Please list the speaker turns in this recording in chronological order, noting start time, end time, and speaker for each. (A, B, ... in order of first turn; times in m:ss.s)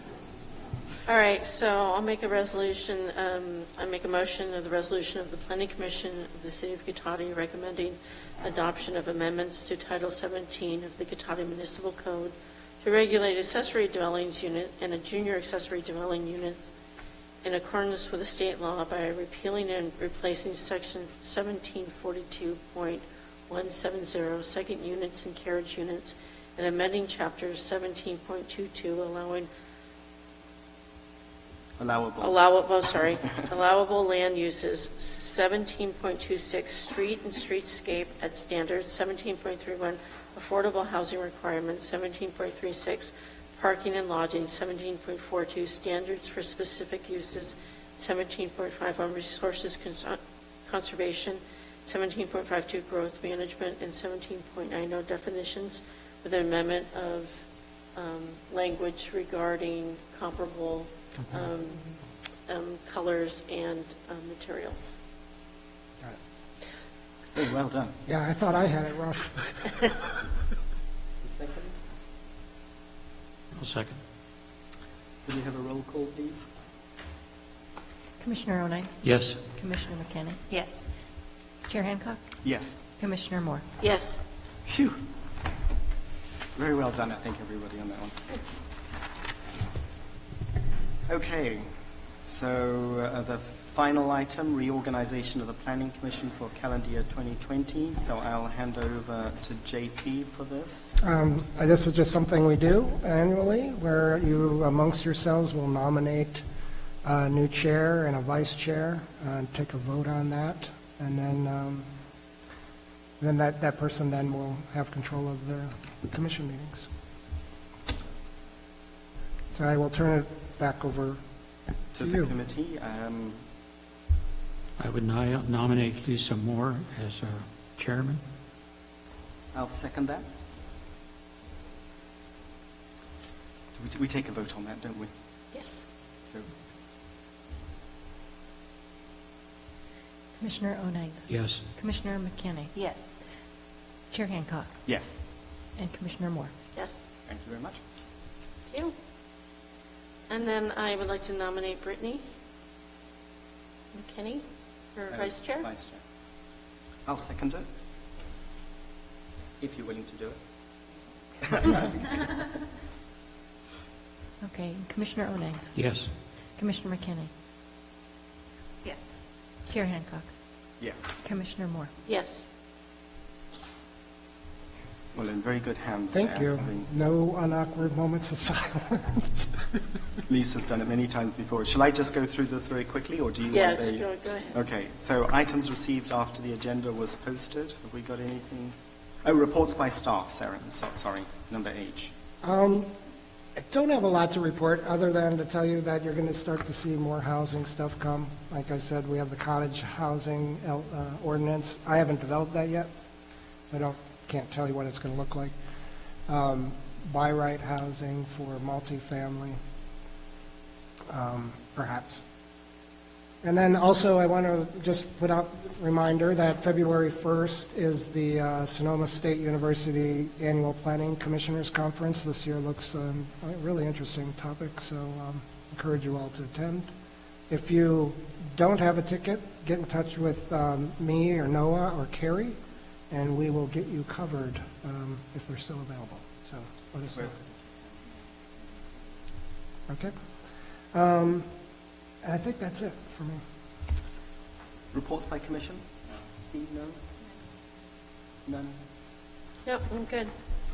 0:01.0-0:16.7 A
0:17.4-0:29.5 A
0:31.8-0:32.4 B
0:32.2-0:57.4 A
0:57.9-1:01.9 A
1:02.5-1:04.9 A
1:07.3-1:08.0 B
1:08.1-1:10.2 C
1:11.2-1:11.8 B
1:13.5-1:14.0 D
1:15.2-1:16.5 B
1:18.2-1:20.9 E
1:19.0-1:19.4 D
1:21.6-1:22.3 E
1:22.4-1:22.8 B
1:23.0-1:23.6 E
1:23.8-1:24.2 A
1:24.6-1:25.0 B
1:26.5-1:28.2 B
1:31.1-1:31.7 B
1:32.2-1:41.0 B
1:41.0-1:46.4 C
1:47.0-1:51.9 C
1:53.2-1:56.9 C
1:59.5-2:01.2 C
2:01.9-2:02.3 C
2:01.9-2:03.4 B
2:04.8-2:08.2 D
2:09.5-2:10.2 B
2:13.7-2:15.1 B
2:15.5-2:15.8 A
2:20.4-2:23.1 E
2:21.3-2:21.6 D
2:24.1-2:24.7 E
2:24.8-2:25.2 B
2:25.8-2:26.5 E
2:26.7-2:27.0 A
2:27.2-2:27.8 B
2:28.7-2:28.9 A
2:30.3-2:32.2 A
2:33.9-2:35.7 A
2:35.1-2:36.0 B
2:37.0-2:37.7 B
2:39.6-2:40.4 B
2:41.4-2:42.3 B
2:44.4-2:45.8 E
2:45.7-2:46.1 D
2:46.5-2:47.3 E
2:49.6-2:50.3 E
2:50.8-2:51.1 B
2:51.2-2:51.9 E
2:52.0-2:52.4 A
2:55.1-2:56.9 B
2:56.1-2:59.6 C
3:00.3-3:12.1 B
3:03.5-3:04.6 A
3:12.4-3:12.9 C
3:13.6-3:22.9 C
3:23.7-3:25.6 C
3:26.2-3:29.6 C
3:31.1-3:32.2 C
3:33.4-3:46.9 C
3:47.5-3:52.6 C
3:53.1-3:57.4 C
3:57.1-3:58.0 B
3:59.9-4:00.1 C
4:00.9-4:01.5 C
4:02.2-4:03.4 C
4:04.9-4:07.0 B
4:08.4-4:08.8 B
4:09.6-4:10.3 A